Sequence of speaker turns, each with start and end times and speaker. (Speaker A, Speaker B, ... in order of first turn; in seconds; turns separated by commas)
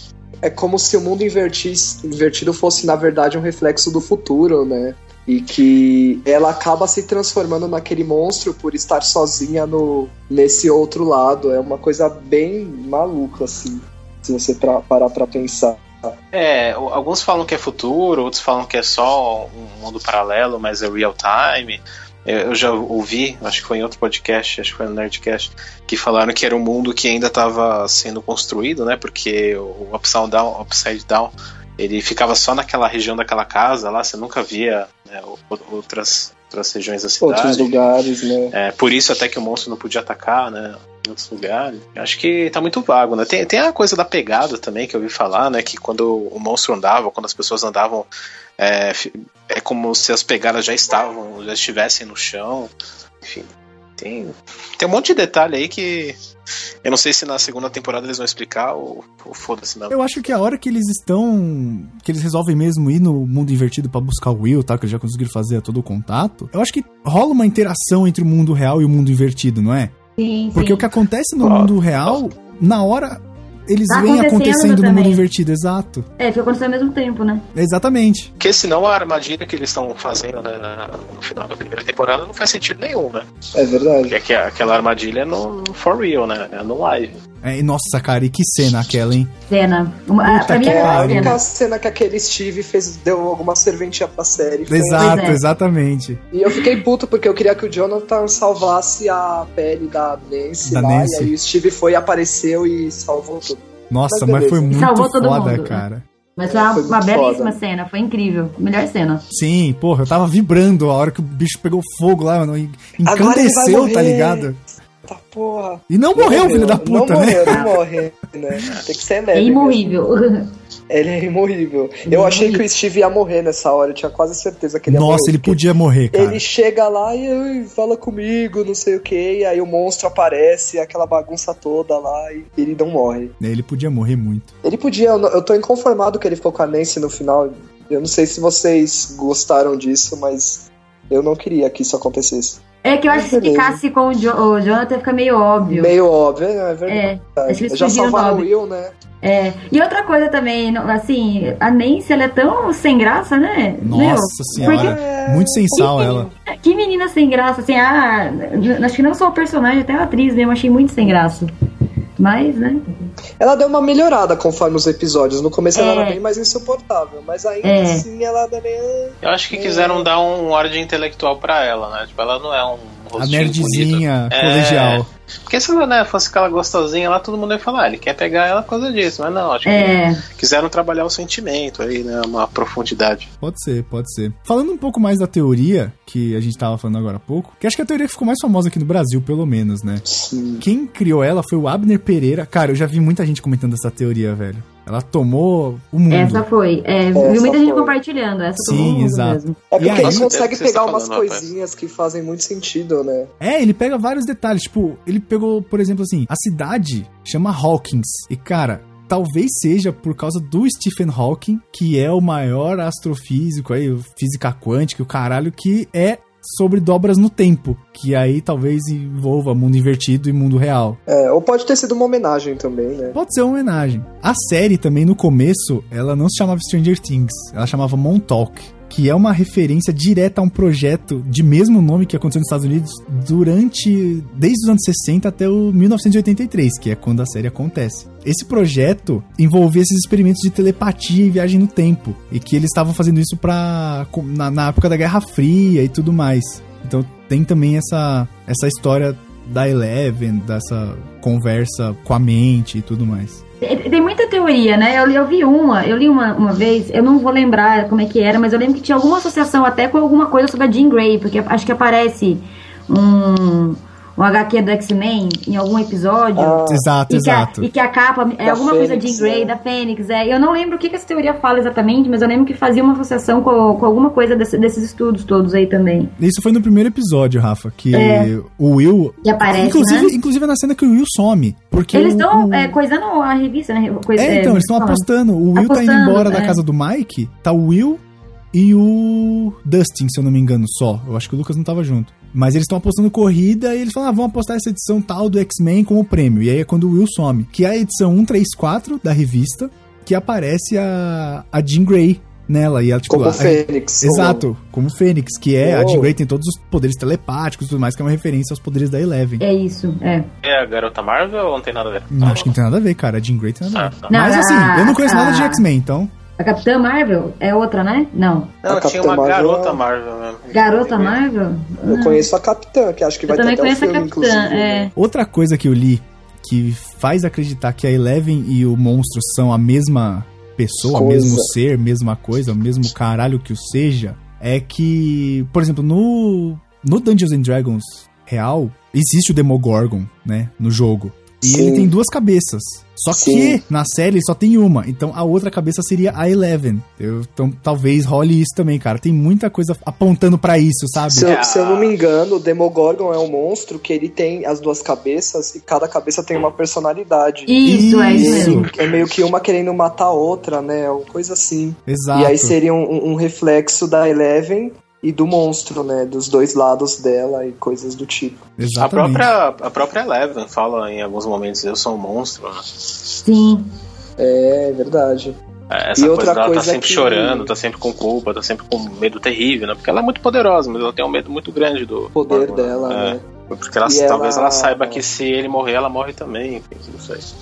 Speaker A: 0.4-16.1, Speaker B: 16.3-37.8, Speaker A: 37.2-38.5, Speaker B: 38.5-48.1, Speaker B: 48.6-52.7, Speaker B: 53.2-56.2, Speaker B: 56.8-60.0, Speaker C: 59.9-69.9, Speaker D: 70.2-70.8, Speaker C: 70.5-76.0, Speaker B: 71.4-72.2, Speaker D: 73.9-75.2, Speaker D: 76.2-77.4, Speaker C: 77.5-78.3, Speaker B: 78.4-83.2, Speaker A: 83.5-84.2, Speaker B: 84.1-87.2, Speaker C: 87.4-89.3, Speaker D: 89.5-91.4, Speaker C: 90.2-91.4, Speaker A: 90.5-95.4, Speaker C: 94.7-96.2, Speaker D: 94.9-95.4, Speaker A: 96.3-104.7, Speaker C: 100.6-101.3, Speaker C: 103.9-106.0, Speaker D: 104.7-105.8, Speaker D: 106.3-109.2, Speaker A: 106.5-107.6, Speaker C: 109.3-114.6, Speaker A: 113.0-120.0, Speaker C: 115.9-117.7, Speaker D: 117.5-117.8, Speaker D: 119.3-120.5, Speaker A: 120.9-133.3, Speaker D: 122.0-122.6, Speaker C: 124.9-126.4, Speaker C: 133.4-134.5, Speaker A: 134.6-143.8, Speaker D: 142.8-145.9, Speaker A: 145.7-148.9, Speaker D: 146.9-148.5, Speaker D: 149.2-155.0, Speaker C: 153.8-156.3, Speaker A: 154.5-156.3, Speaker D: 155.7-161.5, Speaker D: 162.2-162.8, Speaker A: 163.4-170.1, Speaker D: 165.7-166.2, Speaker D: 167.6-168.0, Speaker B: 169.2-183.3, Speaker C: 173.2-175.1, Speaker D: 179.7-180.2, Speaker C: 183.4-190.0, Speaker A: 190.0-190.7, Speaker C: 190.6-196.4, Speaker D: 196.1-199.6, Speaker A: 197.1-197.9, Speaker C: 198.6-200.3, Speaker A: 199.7-203.3, Speaker B: 199.9-201.5, Speaker C: 203.4-221.0, Speaker A: 221.1-223.2, Speaker C: 223.1-253.4, Speaker D: 253.6-276.1, Speaker A: 266.4-266.9, Speaker C: 266.7-267.7, Speaker A: 268.4-269.5, Speaker C: 276.2-282.8, Speaker D: 277.9-278.3, Speaker D: 279.2-280.1, Speaker D: 281.9-286.6, Speaker C: 284.2-288.0, Speaker C: 288.5-309.4, Speaker A: 303.1-304.4, Speaker A: 305.6-306.1, Speaker D: 309.4-310.2, Speaker B: 310.4-312.6, Speaker C: 312.1-316.1, Speaker B: 313.7-314.1, Speaker D: 314.1-315.6, Speaker D: 316.4-318.5, Speaker A: 318.6-319.8, Speaker B: 318.6-321.2, Speaker D: 320.5-322.2, Speaker A: 321.8-324.9, Speaker D: 323.3-324.9, Speaker C: 324.9-351.3, Speaker A: 330.9-331.5, Speaker A: 341.4-341.9, Speaker A: 343.1-343.6, Speaker A: 351.1-368.4, Speaker B: 351.1-352.0, Speaker D: 357.5-358.6, Speaker C: 357.6-358.7, Speaker B: 358.8-359.3, Speaker C: 361.9-362.6, Speaker C: 368.6-369.3, Speaker B: 368.8-372.6, Speaker D: 373.2-373.7, Speaker A: 374.2-375.4, Speaker B: 375.7-387.2, Speaker A: 376.0-377.5, Speaker A: 382.1-383.2, Speaker A: 383.9-385.0